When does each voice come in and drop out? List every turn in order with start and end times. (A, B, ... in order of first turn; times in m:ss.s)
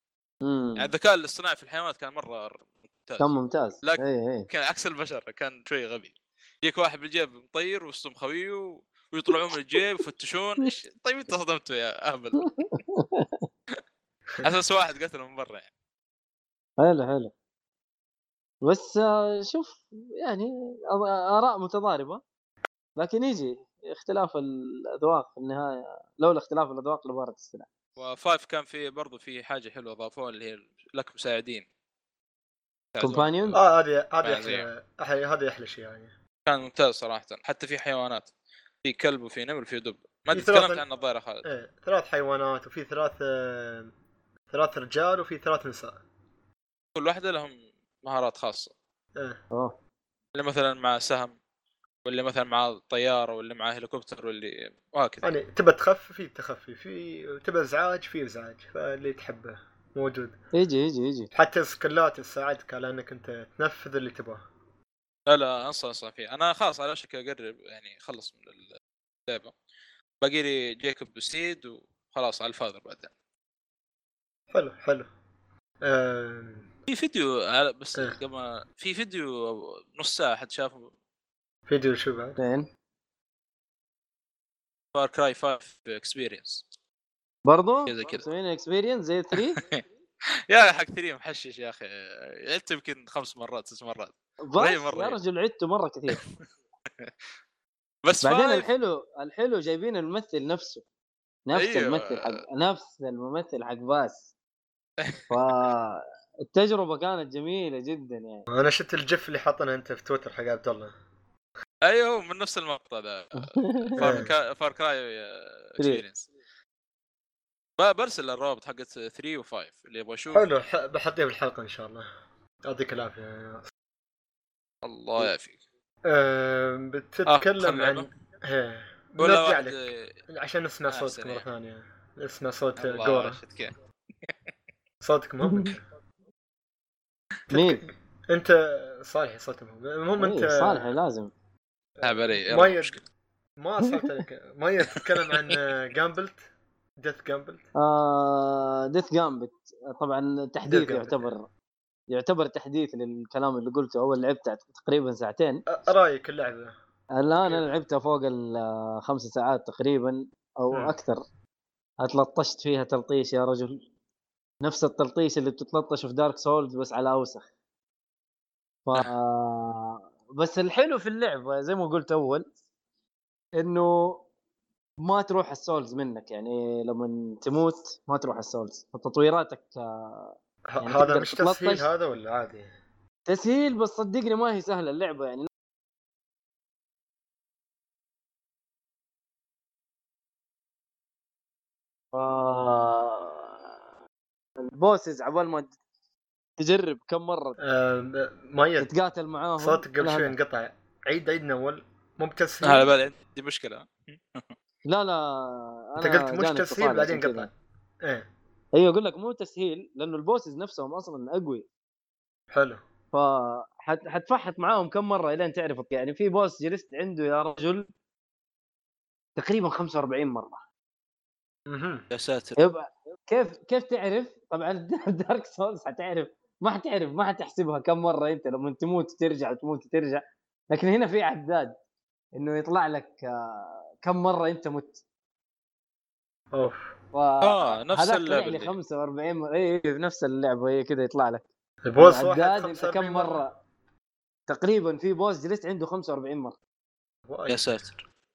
0:00.4-0:00.9 A
0:00.8-0:03.3 B
0:03.2-0:04.5 A
0:03.8-0:12.5 B
0:12.4-0:13.4 A
0:14.4-0:15.7 B
0:16.8-0:17.3 A
0:18.6-0:22.2 A
0:23.0-0:27.7 A
0:28.0-0:31.7 B
0:33.0-0:33.6 B
0:33.0-0:33.6 A
0:33.6-0:36.1 C
0:34.2-0:34.7 B
0:36.5-0:38.3 B
0:38.8-0:41.4 B
0:40.3-0:40.8 C
0:41.4-0:43.9 C
0:44.5-0:46.0 C
0:47.0-0:48.7 B
0:50.4-0:51.4 B
0:52.1-0:55.3 B
0:55.2-1:00.4 C
1:00.5-1:01.3 A
1:01.3-1:04.4 C
1:05.3-1:08.6 B
1:09.3-1:09.5 B
1:10.2-1:13.1 B
1:14.5-1:15.1 C
1:15.8-1:16.7 C
1:16.9-1:20.9 B
1:21.7-1:22.4 C
1:22.4-1:22.7 A
1:25.0-1:26.6 B
1:27.4-1:29.6 A
1:27.9-1:28.2 B
1:29.6-1:29.8 B
1:30.5-1:35.2 B
1:34.4-1:36.2 A
1:38.0-1:38.7 B
1:38.2-1:40.8 A
1:41.5-1:44.3 A
1:41.6-1:42.4 B
1:45.0-1:45.7 B
1:45.3-1:48.5 A
1:48.5-1:50.9 C
1:51.9-1:56.3 B
1:53.4-1:54.2 A
1:54.0-1:54.3 C
1:57.8-2:00.5 B
2:00.3-2:02.1 C
2:02.6-2:03.7 C
2:04.8-2:05.6 B
2:06.1-2:13.4 C
2:07.3-2:08.1 B
2:09.2-2:10.1 B
2:10.9-2:11.5 B
2:12.8-2:13.7 B
2:15.0-2:15.8 C
2:15.4-2:15.7 A
2:17.5-2:21.0 C
2:17.5-2:17.8 A
2:20.2-2:21.3 A
2:22.0-2:23.0 C
2:22.0-2:23.0 B
2:23.6-2:26.4 C
2:27.0-2:27.7 C
2:27.8-2:31.5 A
2:30.7-2:31.2 C
2:32.1-2:35.7 A
2:35.7-2:36.8 C
2:37.2-2:41.2 A
2:42.0-2:43.8 A
2:44.6-2:47.5 A
2:48.9-2:52.5 A
2:53.6-2:54.2 A
2:55.0-3:01.9 A
3:00.7-3:02.7 C
3:03.3-3:05.5 A
3:12.1-3:13.6 A
3:14.6-3:15.8 A
3:16.6-3:17.6 A
3:17.6-3:18.9 C
3:18.8-3:20.4 A
3:19.6-3:23.0 C
3:22.6-3:24.5 B
3:24.9-3:27.5 A
3:26.0-3:28.3 C
3:28.8-3:31.7 A
3:32.5-3:32.8 C
3:33.1-3:37.9 A
3:39.4-3:40.6 A
3:41.7-3:42.0 C
3:42.1-3:42.6 B
3:42.6-3:51.7 A
3:52.4-3:55.0 A
3:56.5-3:56.9 C
3:57.1-4:01.5 A
3:57.4-3:58.7 B
4:01.8-4:03.5 C
4:02.0-4:03.5 A
4:04.5-4:06.6 A
4:07.3-4:07.6 C
4:07.5-4:08.0 B